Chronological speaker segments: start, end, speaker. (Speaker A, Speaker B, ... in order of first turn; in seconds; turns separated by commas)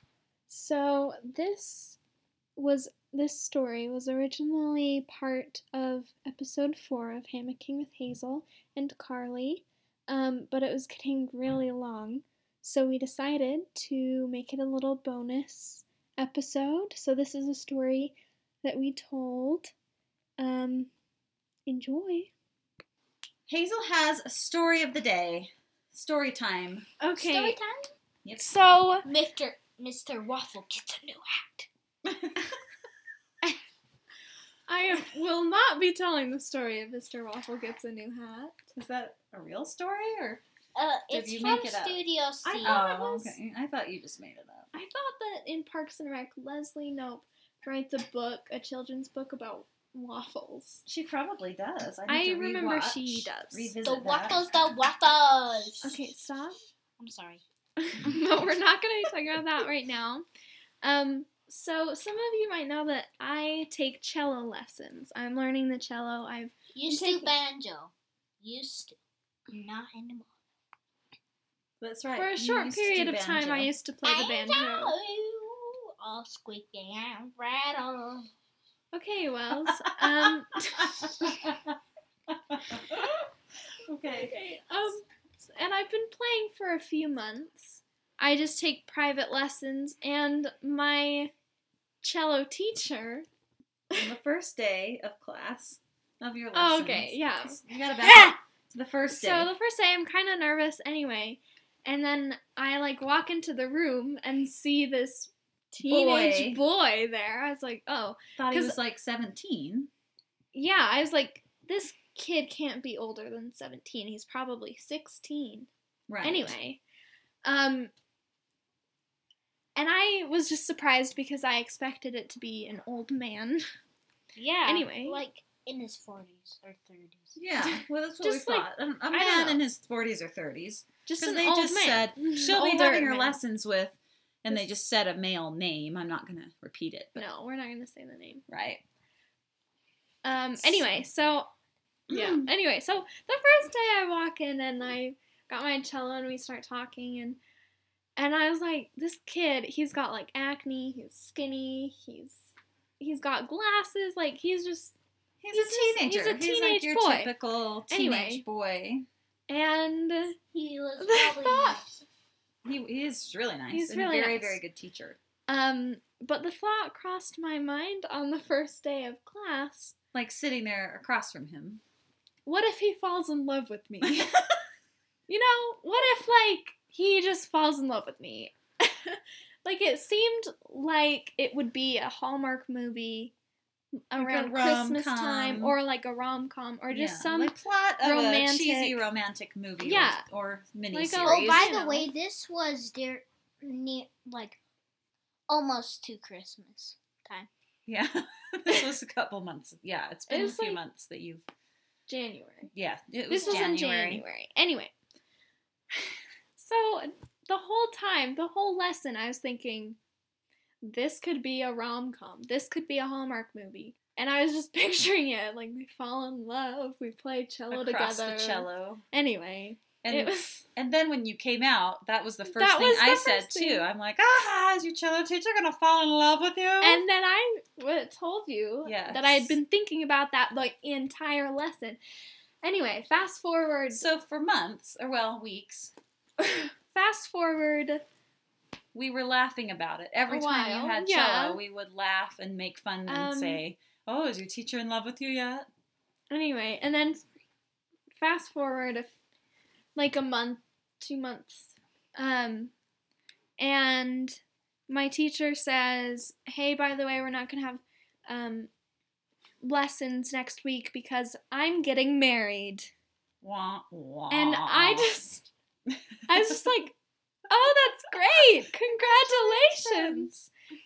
Speaker A: 0.5-2.0, Speaker A: 2.5-19.7, Speaker A: 20.4-20.9, Speaker A: 21.6-22.3, Speaker B: 23.5-26.9, Speaker A: 27.0-27.6, Speaker C: 27.1-27.9, Speaker B: 28.2-28.5, Speaker A: 28.4-29.1, Speaker C: 29.0-31.7, Speaker B: 32.0-32.5, Speaker A: 34.7-38.6, Speaker B: 38.7-40.4, Speaker C: 40.7-42.8, Speaker B: 41.1-42.0, Speaker A: 42.4-43.4, Speaker B: 42.6-44.7, Speaker A: 44.7-50.8, Speaker B: 50.9-54.5, Speaker A: 52.1-53.7, Speaker C: 53.8-56.0, Speaker A: 55.8-56.6, Speaker C: 57.0-57.4, Speaker A: 57.8-60.2, Speaker A: 60.8-67.3, Speaker C: 66.7-69.0, Speaker C: 69.5-70.3, Speaker B: 71.8-73.7, Speaker A: 72.1-74.9, Speaker C: 74.0-78.3, Speaker A: 78.9-81.3, Speaker B: 79.6-81.8, Speaker B: 82.3-83.2, Speaker B: 83.9-84.3, Speaker A: 84.0-91.3, Speaker A: 92.0-93.2, Speaker B: 93.9-99.5, Speaker A: 96.5-98.3, Speaker A: 99.1-108.8, Speaker B: 105.8-106.6, Speaker B: 108.4-109.9, Speaker A: 110.5-115.7, Speaker B: 116.1-116.5, Speaker A: 116.2-116.8, Speaker A: 117.4-117.9, Speaker A: 119.7-123.6, Speaker C: 124.3-127.4, Speaker A: 124.6-125.2, Speaker B: 127.3-137.2, Speaker A: 127.6-129.6, Speaker A: 131.1-133.4, Speaker A: 137.1-138.4, Speaker B: 138.5-138.8, Speaker A: 140.2-141.5, Speaker A: 142.1-147.4, Speaker B: 142.1-142.5, Speaker A: 148.2-152.5, Speaker A: 153.0-154.9, Speaker B: 155.4-159.1, Speaker A: 155.5-157.3, Speaker A: 157.9-158.4, Speaker A: 159.5-160.4, Speaker C: 160.5-162.0, Speaker A: 161.0-161.8, Speaker B: 162.6-165.2, Speaker A: 163.7-164.6, Speaker A: 165.5-169.9, Speaker B: 170.1-171.8, Speaker A: 172.4-174.3, Speaker B: 174.0-174.4, Speaker A: 175.3-183.3, Speaker A: 184.1-189.0, Speaker B: 184.2-185.8, Speaker B: 186.9-191.7, Speaker A: 189.8-190.2, Speaker A: 190.9-192.1, Speaker C: 191.2-194.6, Speaker C: 195.5-197.5, Speaker B: 197.9-201.4, Speaker A: 200.3-200.8, Speaker A: 202.1-202.7, Speaker B: 202.7-204.2, Speaker A: 203.3-204.9, Speaker C: 203.3-203.7, Speaker A: 206.6-210.0, Speaker A: 210.8-220.6, Speaker B: 217.7-219.0, Speaker B: 220.0-227.0, Speaker A: 222.4-223.9, Speaker A: 226.8-232.0, Speaker B: 228.8-229.6, Speaker A: 232.6-234.1, Speaker B: 233.9-235.9, Speaker A: 236.4-238.0, Speaker B: 238.9-245.7, Speaker A: 240.3-241.6, Speaker A: 243.1-243.6, Speaker A: 246.3-247.2, Speaker A: 248.2-249.1, Speaker A: 249.9-252.7, Speaker A: 253.6-258.7, Speaker A: 259.6-262.9, Speaker B: 263.4-265.2, Speaker A: 264.3-265.5, Speaker B: 265.9-266.6, Speaker A: 266.3-266.9, Speaker A: 267.5-270.3, Speaker B: 268.1-270.5